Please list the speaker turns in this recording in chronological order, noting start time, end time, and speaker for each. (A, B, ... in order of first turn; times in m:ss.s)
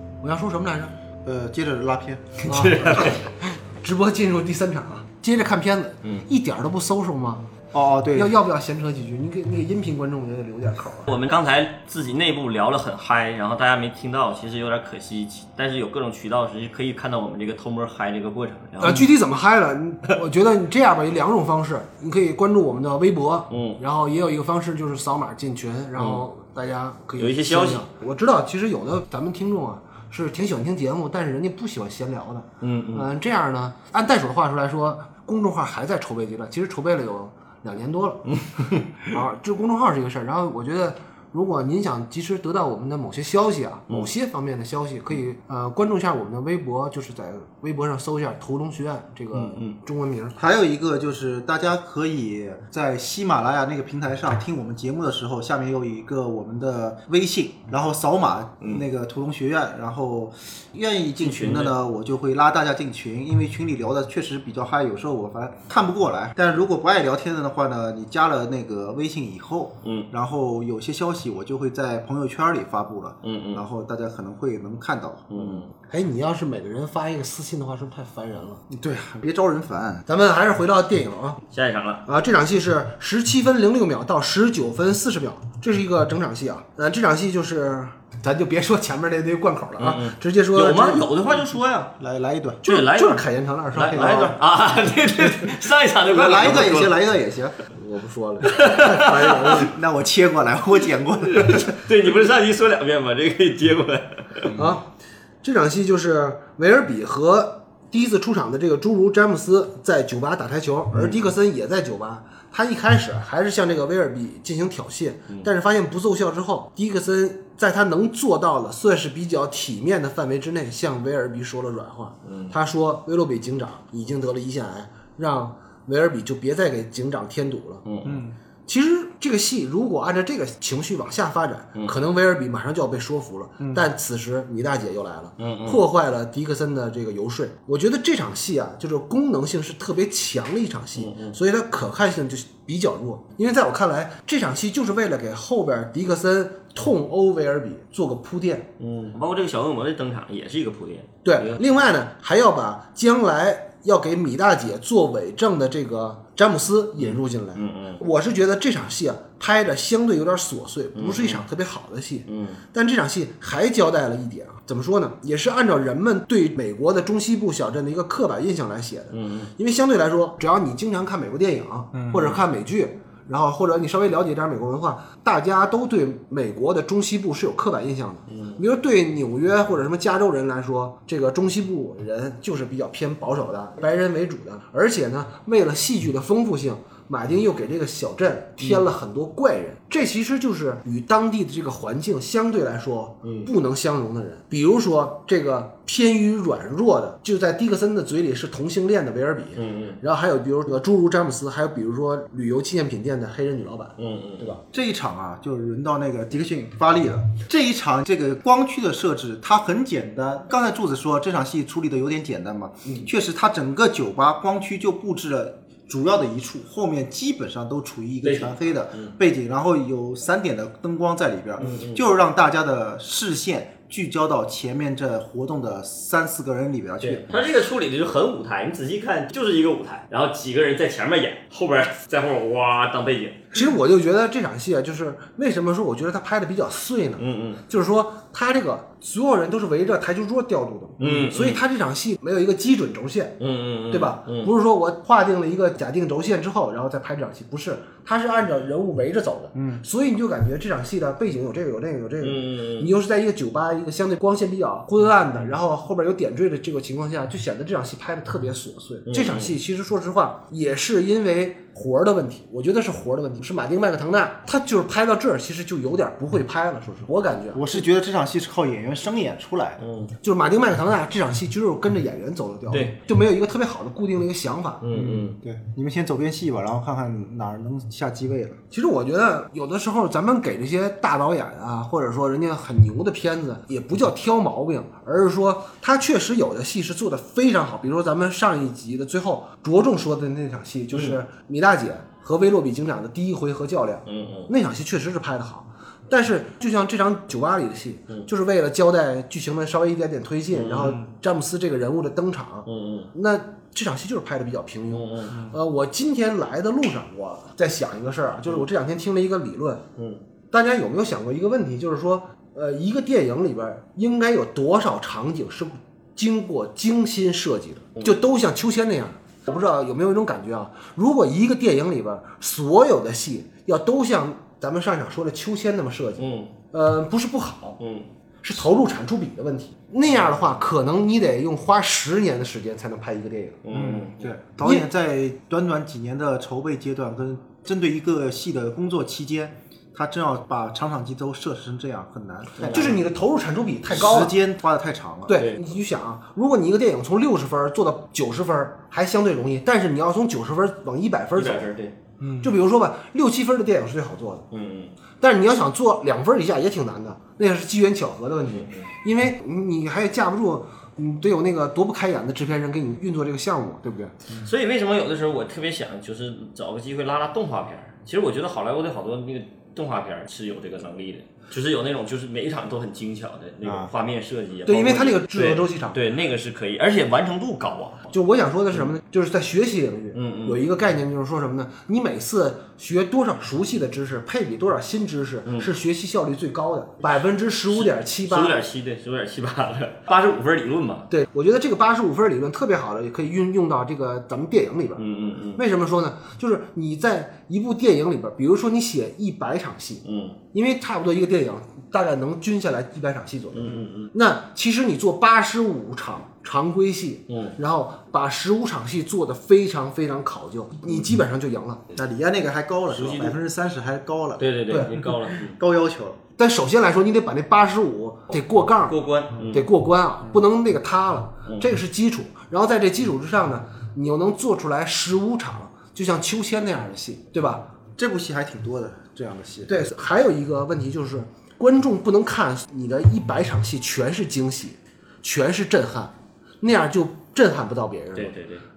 0:00.2-0:01.0 A
0:01.2-0:02.4 B
0:02.4-0:03.3 C
0:02.5-0:07.5 A
0:07.7-0:08.4 B
0:08.1-0:11.1 A
0:11.1-0:19.1 C
0:18.8-0:38.4 A
0:23.5-0:23.8 C
0:26.0-0:26.2 C
0:27.2-0:27.9 C
0:32.6-0:33.1 C
0:38.3-0:39.1 C
0:39.0-0:50.4 A
0:50.4-1:15.6 B
1:01.2-1:01.8 C
1:09.8-1:10.1 C
1:13.2-1:13.6 C
1:15.3-1:15.7 C
1:15.9-1:18.6 A
1:18.7-1:20.0 B
1:20.1-1:21.4 A
1:21.5-1:22.1 C
1:22.1-1:31.1 A
1:29.8-1:31.9 C
1:31.3-1:32.7 B
1:32.6-1:33.2 C
1:32.6-1:34.3 A
1:33.7-1:37.0 C
1:33.9-1:34.4 B
1:36.0-1:37.6 B
1:37.7-1:39.7 A
1:38.4-1:39.7 C
1:39.2-1:41.8 B
1:41.2-1:44.5 C
1:44.5-1:44.8 B
1:44.5-1:44.9 A
1:45.4-2:07.8 A
2:02.3-2:02.5 C
2:07.8-2:08.2 C
2:08.1-2:08.4 B
2:08.7-2:28.7 A
2:15.4-2:15.8 C
2:21.0-2:21.4 C
2:28.8-2:31.6 C
2:31.2-3:24.6 A
2:37.0-2:38.0 C
2:41.0-2:41.4 C
2:42.3-2:42.6 C
2:49.1-2:49.5 C
2:51.9-2:52.4 B
2:58.3-2:58.6 C
3:13.2-3:13.5 C
3:19.6-3:20.0 C
3:24.0-3:24.5 C
3:24.7-3:47.3 B
3:38.2-3:39.1 C
3:41.6-3:42.0 C
3:47.0-3:53.5 C
3:53.5-4:03.4 A
3:57.2-3:57.6 C
4:01.0-4:01.6 C
4:03.4-4:04.5 C
4:03.9-4:27.7 A
4:09.6-4:09.8 B
4:12.2-4:12.9 C
4:19.1-4:19.6 C
4:27.5-4:29.8 B
4:29.8-4:30.1 C
4:30.2-4:34.8 A
4:34.8-4:35.4 C
4:34.9-4:38.6 B
4:38.7-5:09.8 A
4:50.9-4:51.2 C
4:54.1-4:54.5 C
5:00.5-5:01.0 C
5:00.8-5:01.1 B
5:02.7-5:03.1 C
5:04.9-5:05.3 C
5:10.5-5:27.8 A
5:26.2-5:26.5 C
5:27.8-5:28.1 C
5:28.4-5:33.6 A
5:33.6-5:34.3 C
5:33.7-5:43.0 B
5:42.6-5:43.0 C
5:42.7-5:44.4 A
5:43.9-5:45.4 B
5:45.3-5:51.7 A
5:51.4-5:52.0 C
5:52.2-5:52.5 B
5:52.4-5:54.5 A
5:54.5-5:54.9 C
5:55.2-6:04.2 A
5:58.5-5:58.9 C
6:04.4-6:18.1 C
6:13.6-6:13.9 B
6:14.7-6:16.0 A
6:18.1-6:28.6 A
6:20.1-6:20.6 C
6:27.7-6:31.1 C
6:31.1-6:35.0 A
6:35.0-6:35.6 C
6:35.6-6:51.8 A
6:40.0-6:40.4 C
6:43.5-6:44.1 C
6:47.3-6:47.6 C
6:51.9-6:54.4 B
6:52.9-6:53.4 C
6:54.4-6:55.6 C
6:54.7-6:54.9 A
6:55.0-6:56.2 B
6:56.4-6:59.0 A
6:58.9-6:59.6 C
6:59.5-7:07.7 A
7:08.0-7:09.8 B
7:09.7-7:18.3 A
7:18.2-7:18.6 C